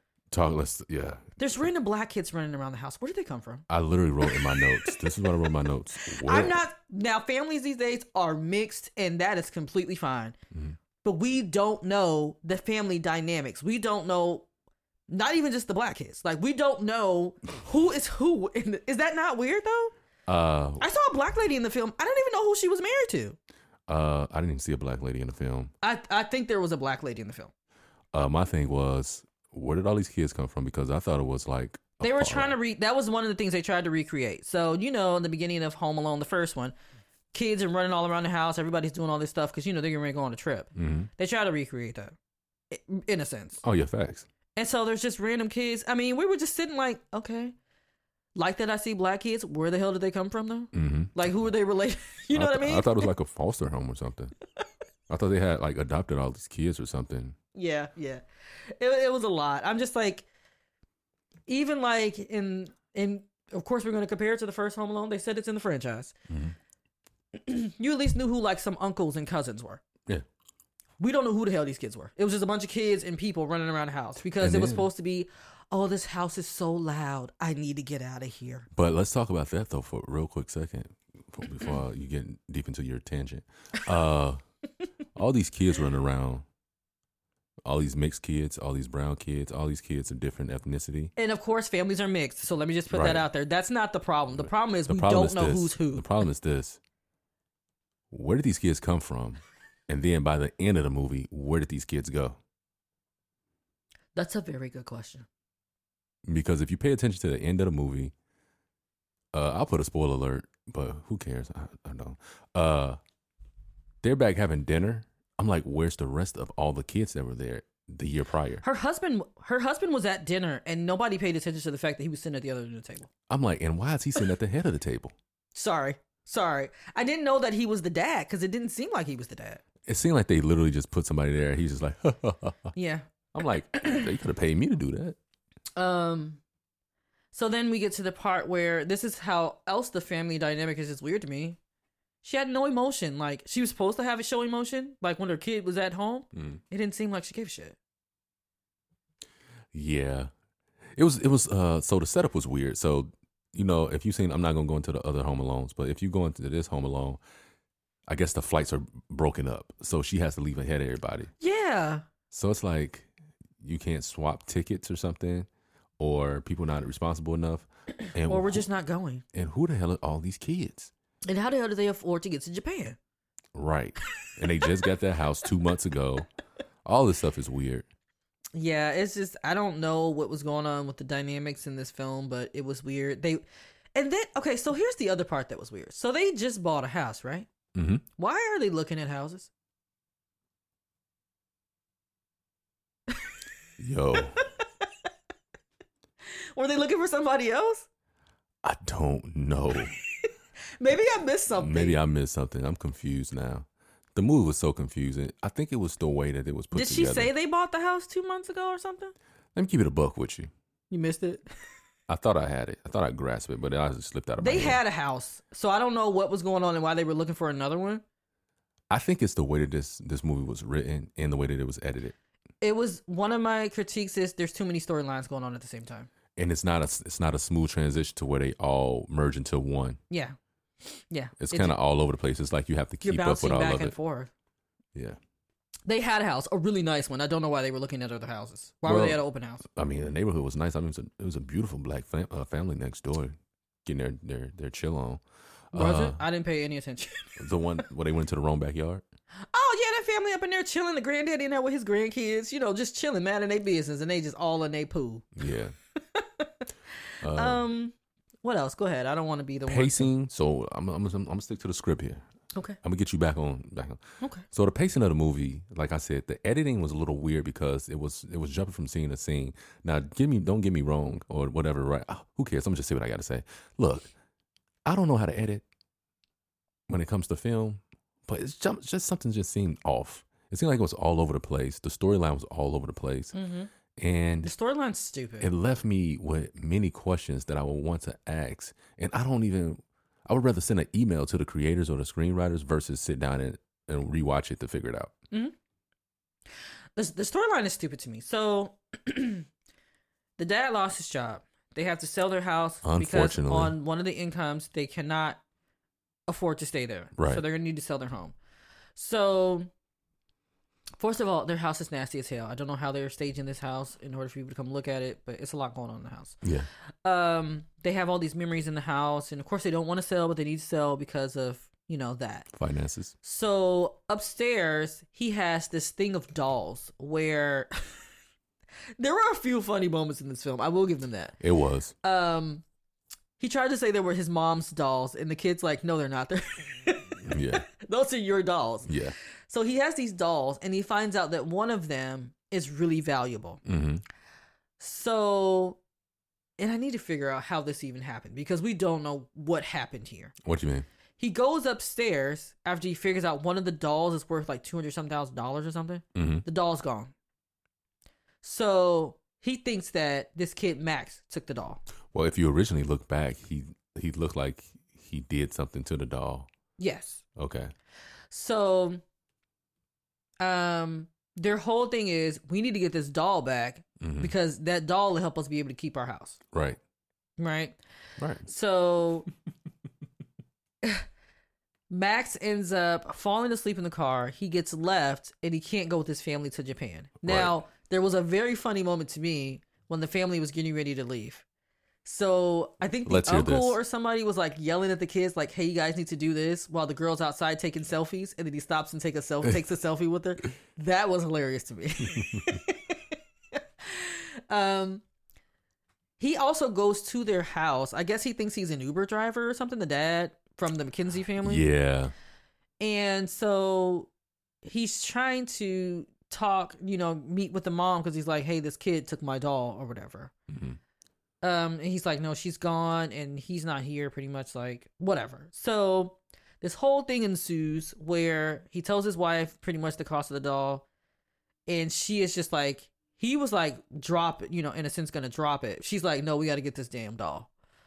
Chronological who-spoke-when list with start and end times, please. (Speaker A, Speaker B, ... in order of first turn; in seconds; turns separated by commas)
Speaker A: 0.3-1.3, Speaker B: 1.4-3.7, Speaker A: 3.7-6.6, Speaker B: 4.2-5.0, Speaker B: 6.0-10.4, Speaker B: 11.0-14.5, Speaker B: 15.1-19.9, Speaker A: 20.3-20.8, Speaker B: 20.8-23.4, Speaker A: 23.9-25.7, Speaker B: 25.8-27.5, Speaker A: 28.1-32.6, Speaker B: 32.0-36.7, Speaker B: 37.3-42.2, Speaker A: 40.8-41.1, Speaker B: 42.7-43.6, Speaker A: 43.6-44.3, Speaker B: 44.5-47.5, Speaker B: 48.4-53.1, Speaker A: 50.7-51.1, Speaker A: 52.3-54.3, Speaker A: 55.1-57.4, Speaker B: 57.5-60.3, Speaker B: 61.5-66.2, Speaker A: 66.3-66.5, Speaker B: 67.3-69.8, Speaker B: 71.0-78.7, Speaker A: 74.3-74.9, Speaker A: 78.7-84.4, Speaker A: 85.2-86.5, Speaker A: 87.7-91.1, Speaker B: 91.2-96.1, Speaker A: 92.9-93.3, Speaker A: 94.4-96.8, Speaker A: 98.1-102.4, Speaker B: 104.2-105.3, Speaker A: 106.3-108.1, Speaker A: 109.3-113.0, Speaker A: 114.0-118.6, Speaker B: 118.6-123.1, Speaker A: 123.3-125.1, Speaker B: 125.5-129.6, Speaker A: 129.9-132.7, Speaker B: 132.8-133.1, Speaker A: 133.3-135.2, Speaker B: 133.7-134.1, Speaker B: 135.8-136.4, Speaker B: 137.3-141.6, Speaker B: 142.2-147.8, Speaker A: 146.3-146.6, Speaker A: 149.7-150.3, Speaker A: 150.9-157.2, Speaker A: 158.1-161.3, Speaker B: 161.4-162.1, Speaker A: 162.3-165.5, Speaker A: 166.0-168.7, Speaker B: 168.3-169.2, Speaker A: 169.3-170.9, Speaker B: 171.2-173.0, Speaker A: 173.6-176.3, Speaker B: 174.5-174.9, Speaker A: 176.8-177.9, Speaker B: 178.6-183.4, Speaker B: 183.9-187.5, Speaker A: 187.8-188.0, Speaker B: 188.2-189.5, Speaker B: 193.1-193.3, Speaker A: 193.8-194.4, Speaker B: 194.4-194.9, Speaker B: 196.3-197.9, Speaker A: 198.6-199.9, Speaker B: 200.8-202.0, Speaker A: 201.6-207.3, Speaker B: 206.7-209.1, Speaker A: 209.6-210.5, Speaker B: 210.9-211.5, Speaker A: 212.1-214.8, Speaker B: 214.4-218.0, Speaker A: 218.9-222.2, Speaker B: 222.6-226.1, Speaker A: 226.4-230.0, Speaker B: 230.1-231.8, Speaker A: 231.4-233.9, Speaker B: 233.0-234.3, Speaker B: 235.9-239.6, Speaker A: 238.8-246.2, Speaker B: 245.7-247.4, Speaker A: 247.4-249.0, Speaker B: 249.5-255.3, Speaker A: 255.4-255.7, Speaker B: 256.1-256.7, Speaker A: 257.2-257.6, Speaker B: 257.3-260.1, Speaker A: 259.7-262.2, Speaker A: 262.8-274.1, Speaker B: 264.2-264.5, Speaker A: 274.9-275.6, Speaker A: 276.9-283.4, Speaker B: 283.3-283.7, Speaker A: 284.0-284.5, Speaker B: 284.4-285.5, Speaker A: 285.4-295.1, Speaker B: 297.0-299.5, Speaker B: 300.4-305.4, Speaker A: 302.8-303.8, Speaker B: 306.3-308.4, Speaker A: 307.2-307.4, Speaker B: 309.0-309.7, Speaker B: 311.0-316.4, Speaker A: 316.4-316.7, Speaker B: 317.1-322.5, Speaker A: 322.5-323.1, Speaker B: 323.2-327.9, Speaker B: 329.0-331.4, Speaker A: 331.4-331.9, Speaker B: 332.0-332.6, Speaker B: 333.4-338.9, Speaker A: 337.2-337.7, Speaker A: 338.9-339.2, Speaker B: 339.5-343.6, Speaker A: 343.6-344.0, Speaker B: 344.8-345.8, Speaker B: 346.6-350.3, Speaker A: 350.4-350.9, Speaker B: 351.2-357.1, Speaker A: 356.1-356.4, Speaker B: 358.4-361.8, Speaker A: 362.1-366.5, Speaker B: 366.8-367.2, Speaker A: 367.4-367.7, Speaker B: 368.3-369.0, Speaker B: 370.4-376.4, Speaker A: 374.0-374.3, Speaker A: 376.5-376.8, Speaker B: 377.4-377.8, Speaker A: 378.2-378.5, Speaker B: 378.4-379.3, Speaker B: 381.9-391.4, Speaker A: 387.2-387.6, Speaker B: 392.1-403.1, Speaker A: 393.1-393.8, Speaker A: 402.2-402.6, Speaker B: 403.8-405.0, Speaker B: 406.2-411.7, Speaker A: 411.4-412.1, Speaker B: 412.8-414.1, Speaker B: 414.6-420.3, Speaker A: 420.5-420.8, Speaker B: 421.4-430.9, Speaker B: 431.7-437.5